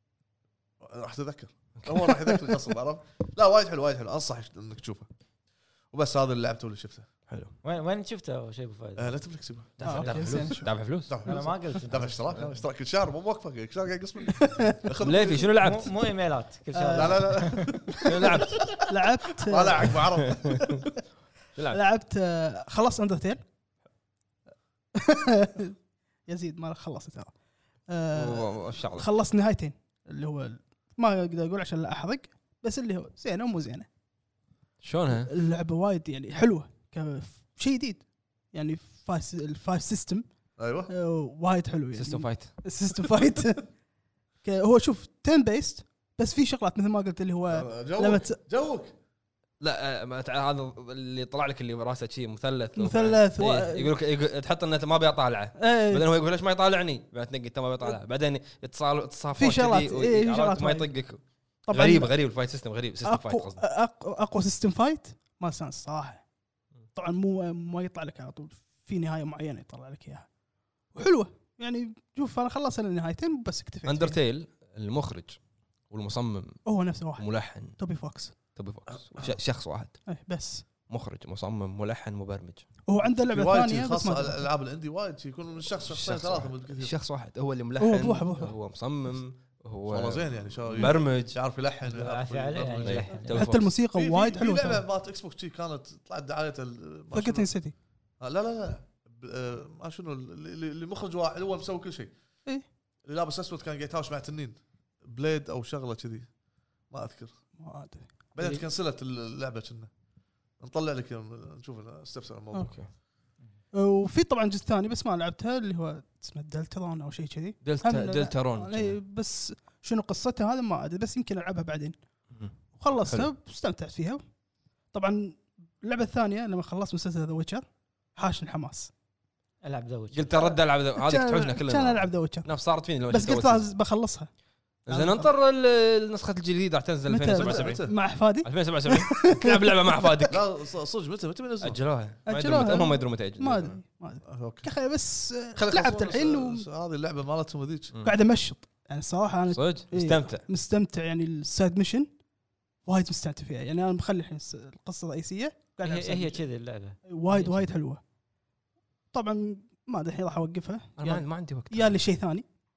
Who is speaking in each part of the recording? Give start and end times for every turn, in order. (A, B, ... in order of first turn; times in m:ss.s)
0:00.8-0:05.1 A
0:01.8-0:02.0 B
0:05.9-0:07.0 A
0:07.3-0:07.5 B
0:07.6-0:09.2 C
0:09.0-0:09.9 A
0:09.8-0:10.7 C
0:09.8-0:11.1 B
0:09.8-0:10.6 D
0:11.1-0:15.5 A
0:11.2-0:12.6 C
0:14.3-0:14.8 D
0:15.0-0:15.9 B
0:15.6-0:17.8 C
0:16.7-0:17.5 D
0:16.9-0:18.8 A
0:18.0-0:18.6 B
0:18.9-0:20.0 D
0:19.5-0:20.7 A
0:20.2-0:20.8 B
0:21.6-0:21.8 B
0:21.7-0:23.4 D
0:25.0-0:25.7 D
0:26.3-0:27.3 D
0:27.9-0:33.9 D
0:28.1-0:29.1 B
0:34.8-0:35.3 B
0:35.1-0:40.3 D
0:40.6-0:40.9 A
0:40.9-0:43.7 D
0:41.9-0:42.5 B
0:44.4-0:48.4 D
0:47.5-0:48.9 A
0:49.6-1:03.6 B
0:52.8-0:53.9 D
0:55.6-0:56.0 D
0:59.4-1:00.9 D
1:01.7-1:02.1 D
1:03.0-1:06.2 D
1:06.9-1:10.3 D
1:10.9-1:14.2 D
1:13.8-1:15.4 B
1:15.9-1:16.6 B
1:16.6-1:18.3 D
1:17.2-1:17.8 B
1:18.5-1:20.0 B
1:18.9-1:19.4 A
1:20.1-1:20.6 D
1:20.9-1:22.6 B
1:22.9-1:24.4 D
1:23.2-1:26.9 A
1:25.8-1:31.3 B
1:27.8-1:28.5 D
1:29.9-1:33.1 A
1:31.9-1:33.5 C
1:32.8-1:33.7 B
1:33.3-1:34.8 D
1:33.9-1:37.5 A
1:37.1-1:37.7 D
1:38.2-1:42.1 A
1:43.0-1:46.3 A
1:46.9-1:47.3 A
1:47.6-1:48.1 D
1:48.3-1:49.9 A
1:50.6-1:52.8 A
1:53.7-2:02.0 D
1:57.6-1:59.0 B
2:02.3-2:03.3 B
2:02.8-2:04.2 D
2:04.9-2:08.9 D
2:09.6-2:10.3 C
2:10.1-2:13.7 B
2:10.3-2:12.5 D
2:13.1-2:14.3 D
2:14.9-2:17.8 B
2:14.9-2:15.3 D
2:17.1-2:20.4 D
2:17.3-2:18.0 A
2:18.4-2:20.4 B
2:20.3-2:21.8 A
2:21.6-2:23.8 B
2:22.2-2:26.6 D
2:24.3-2:24.7 A
2:25.5-2:27.9 A
2:28.0-2:32.1 D
2:29.5-2:30.4 B
2:32.8-2:36.4 D
2:35.8-2:37.7 C
2:37.1-2:38.0 D
2:39.1-2:42.4 D
2:41.0-2:42.0 B